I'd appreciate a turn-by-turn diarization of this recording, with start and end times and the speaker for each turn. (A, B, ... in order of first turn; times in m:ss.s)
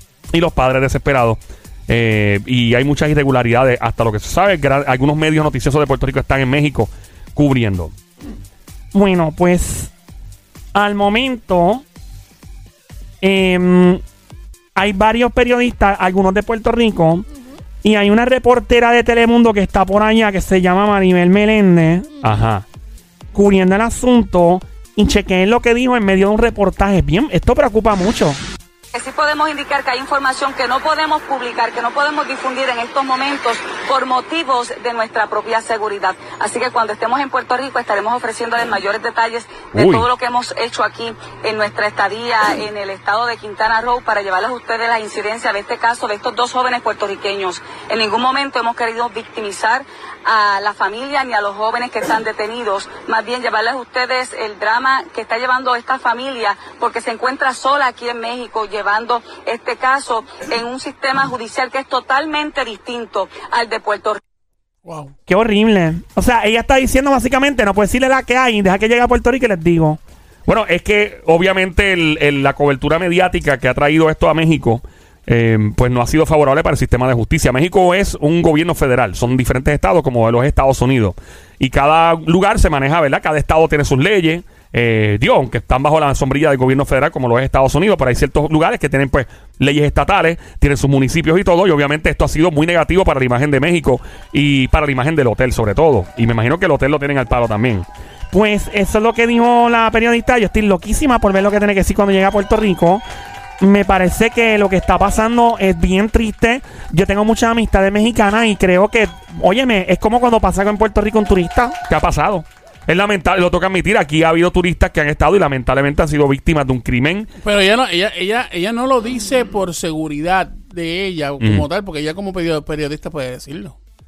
0:00.3-0:07.9 A
0:08.9-0:09.9 B
0:10.7-0:11.8 B
0:13.2-0:14.0 B
0:14.8-0:17.3 B
0:17.8-0:22.1 B
0:22.2-0:22.6 A
0:23.3-0:28.4 B
0:28.9-1:04.2 C
0:39.7-0:40.1 A
1:04.8-1:05.1 D
1:05.3-1:10.0 B
1:10.4-1:37.8 A
1:38.3-1:43.0 B
1:43.6-1:51.8 B
1:51.9-1:57.3 A
1:57.4-2:03.7 D
2:01.4-2:01.6 A